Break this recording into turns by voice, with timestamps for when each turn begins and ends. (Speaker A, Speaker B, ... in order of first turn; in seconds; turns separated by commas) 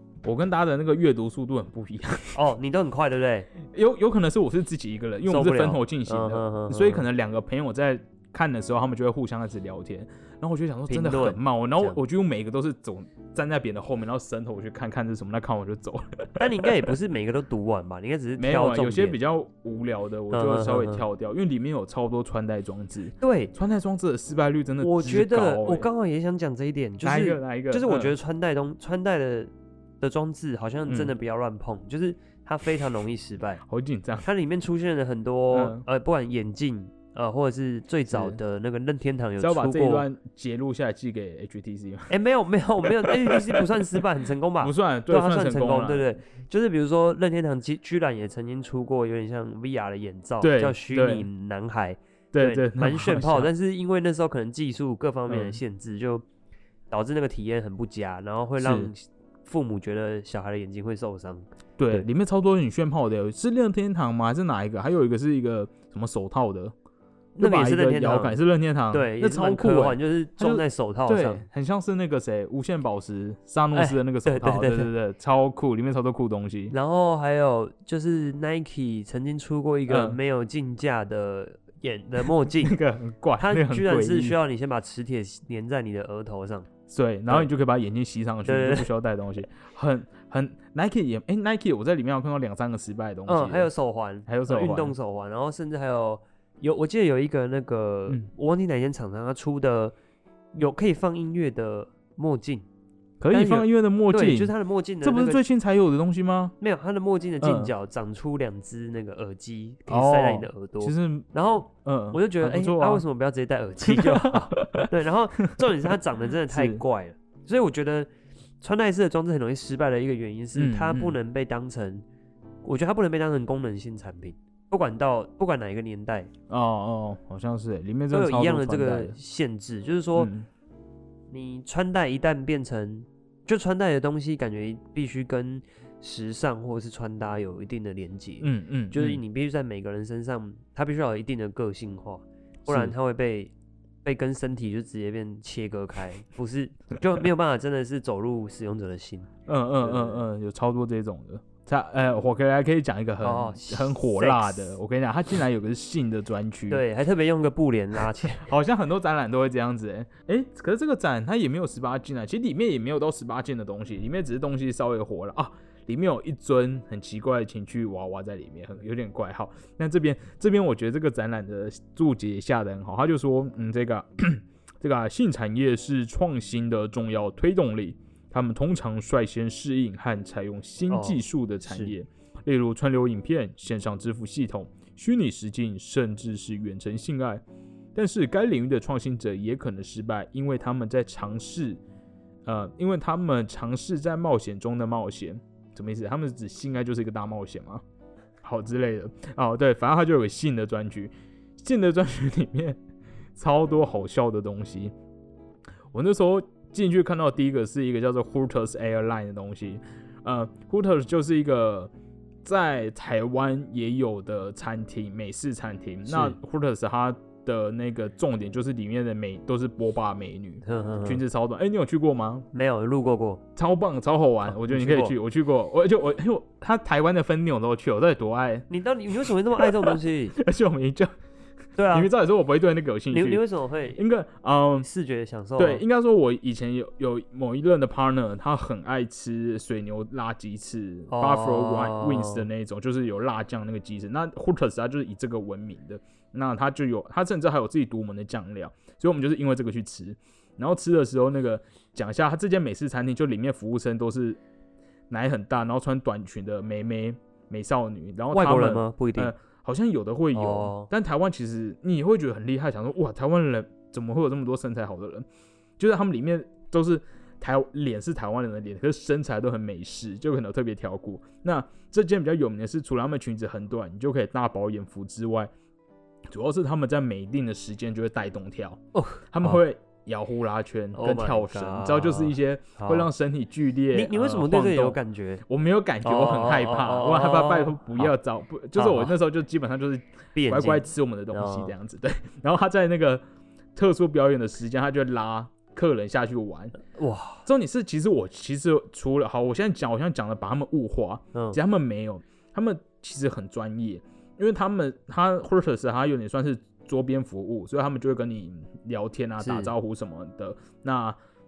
Speaker A: 0.2-2.4, Speaker B: 2.3-3.5, Speaker A: 3.6-16.9, Speaker B: 5.3-7.1, Speaker B: 10.9-12.0, Speaker B: 16.4-19.2, Speaker A: 18.4-25.9, Speaker B: 20.3-21.1, Speaker B: 23.2-23.5, Speaker B: 24.8-33.6, Speaker A: 27.0-28.1, Speaker A: 30.9-31.1, Speaker A: 33.7-34.3, Speaker B: 34.2-40.0, Speaker A: 35.5-35.9, Speaker A: 38.1-38.4, Speaker A: 39.4-42.1, Speaker B: 42.1-56.2, Speaker A: 42.8-44.0, Speaker A: 44.6-46.1, Speaker A: 50.4-51.3, Speaker A: 52.3-53.5, Speaker A: 55.3-55.6, Speaker B: 56.9-62.1, Speaker A: 58.6-58.9, Speaker A: 61.8-66.7, Speaker A: 67.4-76.7, Speaker B: 67.4-68.4, Speaker B: 68.9-71.5, Speaker B: 73.7-74.9, Speaker B: 76.7-82.8, Speaker A: 79.9-80.2, Speaker A: 82.6-84.4, Speaker B: 83.4-86.7, Speaker A: 86.9-93.7, Speaker B: 88.5-88.9, Speaker B: 93.3-100.0, Speaker A: 94.3-95.0, Speaker B: 100.5-102.7, Speaker A: 103.2-106.5, Speaker B: 103.3-105.4, Speaker B: 106.6-118.1, Speaker A: 107.4-107.7, Speaker A: 109.9-111.3, Speaker A: 111.8-113.0, Speaker A: 113.8-115.8, Speaker A: 116.5-116.8, Speaker B: 118.6-122.0, Speaker A: 120.5-121.2, Speaker B: 122.6-126.3, Speaker A: 126.5-129.2, Speaker B: 128.1-130.3, Speaker A: 130.2-130.5, Speaker B: 131.3-143.5, Speaker A: 138.4-139.2, Speaker A: 142.7-142.9, Speaker B: 144.0-149.3, Speaker A: 149.5-156.8, Speaker B: 149.8-150.2, Speaker B: 153.2-154.8, Speaker B: 156.7-158.5, Speaker A: 158.3-187.4, Speaker B: 180.9-181.9, Speaker A: 187.9-191.8, Speaker A: 192.5-197.8, Speaker A: 198.4-202.8, Speaker A: 203.4-204.9, Speaker A: 205.9-211.9, Speaker A: 212.4-222.5, Speaker B: 216.1-216.4, Speaker B: 220.6-221.2, Speaker B: 222.5-223.4, Speaker A: 223.6-231.1, Speaker B: 224.4-225.2, Speaker B: 228.7-230.4, Speaker B: 231.8-232.1, Speaker A: 231.9-233.4, Speaker B: 233.1-234.0, Speaker A: 234.0-234.9, Speaker B: 234.8-235.8, Speaker A: 235.6-254.4, Speaker B: 241.1-242.5, Speaker A: 255.1-265.3, Speaker B: 258.3-259.3, Speaker B: 260.3-260.9, Speaker A: 265.8-275.5, Speaker A: 276.3-293.2, Speaker B: 278.9-279.6, Speaker B: 280.9-283.1, Speaker B: 283.9-285.4, Speaker B: 286.0-288.1, Speaker B: 288.8-289.2, Speaker B: 290.4-291.7, Speaker A: 293.8-296.8, Speaker B: 296.9-297.4, Speaker A: 297.4-311.2, Speaker B: 309.4-309.7